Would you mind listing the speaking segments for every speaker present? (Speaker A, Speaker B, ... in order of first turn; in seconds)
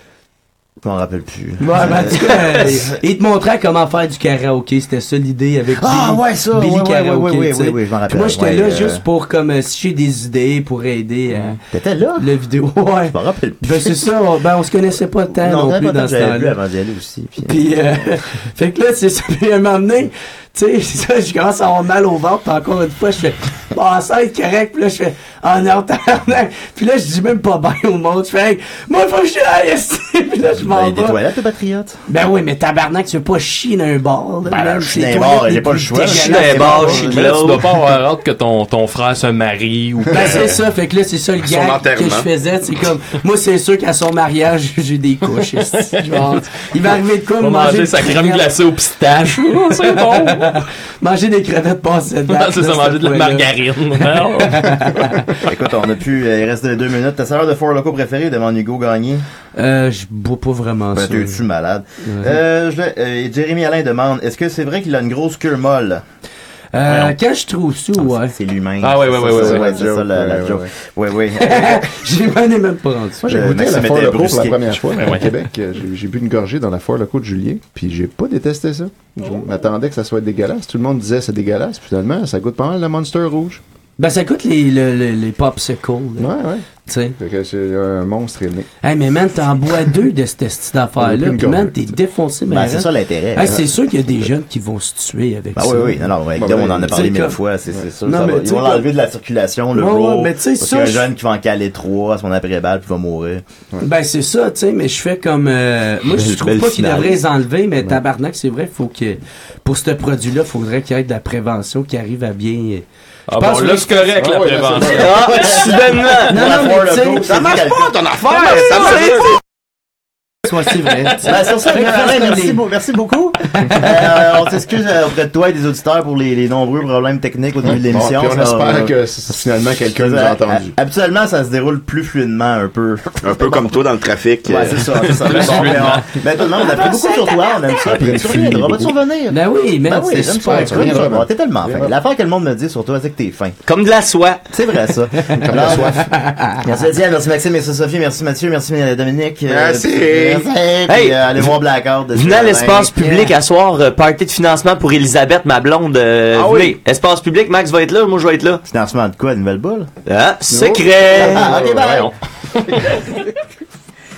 Speaker A: 0.8-3.0, 5.8-9.0, 11.7-12.3, 13.1-13.9, 15.4-17.6, 30.6-32.0, 34.5-37.2, 55.4-59.2, 60.9-66.0, 68.0-71.9, 73.2-74.8, 92.5-93.6, 95.5-103.4, 115.2-117.9, 121.1-133.8, 134.4-143.6, 144.5-146.0, 146.6-153.1, 158.7-159.9, 161.1-162.1
Speaker B: 1.6-11.6, 12.2-16.5, 17.4-31.2, 32.1-37.2, 40.1-48.5, 49.3-55.4, 59.5-61.4, 62.0-62.4, 66.7-68.3, 71.3-73.3, 84.0-86.3, 86.8-87.2, 88.8-96.0, 96.9-97.4, 98.0-98.9, 99.7-101.1, 103.8-114.1, 116.2-117.4, 120.4-122.6, 123.5-123.8, 139.3-141.1, 145.9-146.6
Speaker C: 36.0-37.7, 106.1-107.2, 114.8-116.6, 143.6-144.4, 150.9-151.5, 152.1-158.6, 160.1-161.5
Speaker D: 37.0-40.6, 45.8-46.4, 47.4-50.6, 52.3-54.9, 66.9-67.1, 68.8-69.7, 75.0-75.3, 113.3-115.5, 118.3-119.2, 134.9-136.1, 161.8-163.2
Speaker E: 41.5-42.3, 117.2-119.4, 133.2-134.9, 149.5-150.5, 156.3-156.8
Speaker F: 69.2-70.7, 73.2-83.6, 86.2-86.6, 87.2-88.7, 91.0-91.9, 96.3-97.1, 114.2-115.2, 127.6-130.7, 137.8-139.0, 140.4-141.9, 145.3-146.1, 160.5-162.1